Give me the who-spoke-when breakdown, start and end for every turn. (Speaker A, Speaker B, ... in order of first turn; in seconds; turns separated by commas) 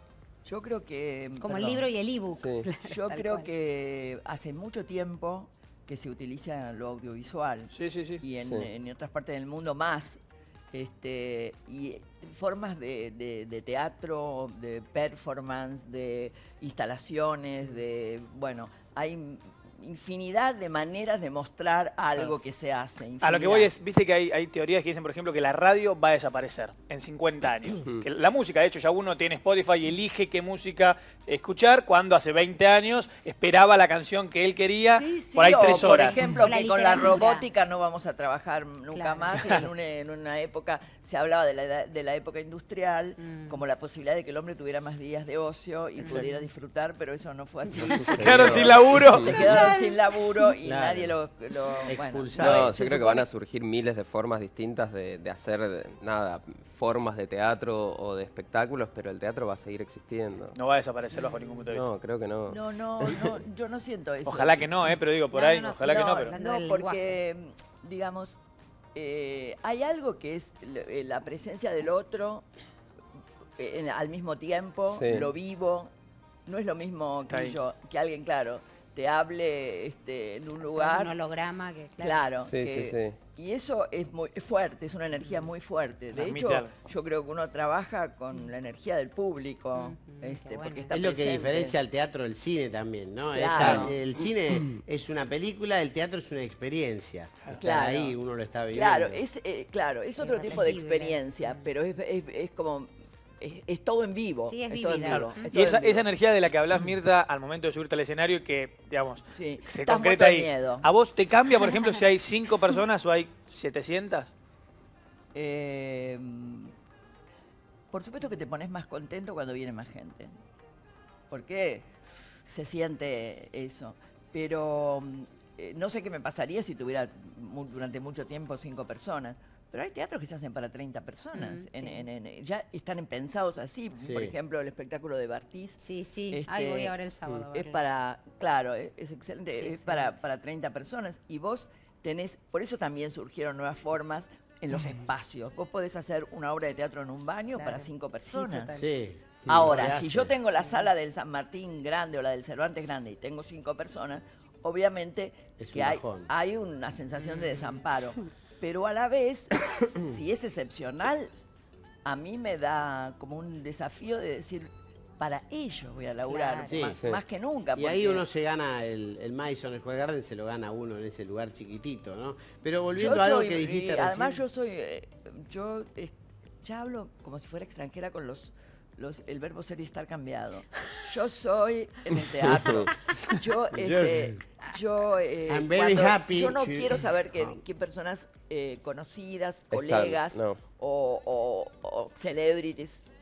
Speaker A: 0.5-1.9, Speaker B: 1.4-3.5, Speaker C: 2.3-2.7, Speaker A: 2.7-10.2, Speaker D: 7.7-8.2, Speaker C: 8.4-8.7, Speaker A: 10.7-23.7, Speaker D: 23.2-36.3, Speaker A: 34.9-53.3, Speaker B: 35.8-37.5, Speaker B: 38.9-39.4, Speaker B: 43.2-43.6, Speaker B: 46.0-46.5, Speaker B: 47.8-48.2, Speaker C: 47.8-49.3, Speaker D: 48.1-49.3, Speaker B: 49.2-50.0, Speaker E: 50.6-51.1, Speaker E: 51.9-52.7, Speaker C: 52.4-60.6, Speaker D: 60.5-61.9, Speaker A: 61.2-61.6, Speaker C: 61.7-63.4, Speaker A: 62.5-64.7, Speaker D: 64.3-66.3, Speaker B: 65.3-67.2, Speaker A: 65.8-68.4, Speaker A: 69.0-72.5, Speaker A: 73.6-75.9, Speaker C: 74.9-75.3, Speaker A: 76.5-81.2, Speaker D: 77.3-77.6, Speaker B: 80.6-82.2, Speaker A: 82.0-91.8, Speaker C: 82.4-83.2, Speaker D: 86.1-86.7, Speaker B: 89.8-90.9, Speaker E: 90.9-99.2, Speaker A: 93.3-94.0, Speaker D: 93.6-93.9, Speaker A: 97.6-98.2, Speaker A: 98.7-106.0, Speaker B: 100.2-101.7, Speaker B: 104.5-105.8, Speaker D: 105.1-114.3, Speaker A: 109.3-110.9, Speaker A: 115.3-116.7, Speaker A: 117.9-120.3, Speaker A: 121.3-121.9, Speaker A: 122.5-135.8, Speaker B: 131.3-132.1, Speaker E: 134.0-134.3, Speaker B: 135.8-137.8, Speaker A: 136.3-136.9, Speaker A: 137.5-148.8, Speaker B: 139.6-140.1, Speaker B: 147.5-148.9, Speaker E: 148.8-150.3, Speaker A: 149.5-161.3, Speaker B: 149.6-149.9, Speaker B: 150.6-150.9, Speaker E: 155.6-156.3, Speaker B: 157.2-157.8, Speaker A: 162.1-168.2, Speaker B: 166.3-166.8, Speaker E: 166.7-167.0, Speaker E: 167.8-174.4, Speaker A: 173.0-193.1, Speaker C: 182.3-182.9, Speaker E: 183.7-184.4, Speaker E: 185.5-187.6, Speaker C: 189.7-190.6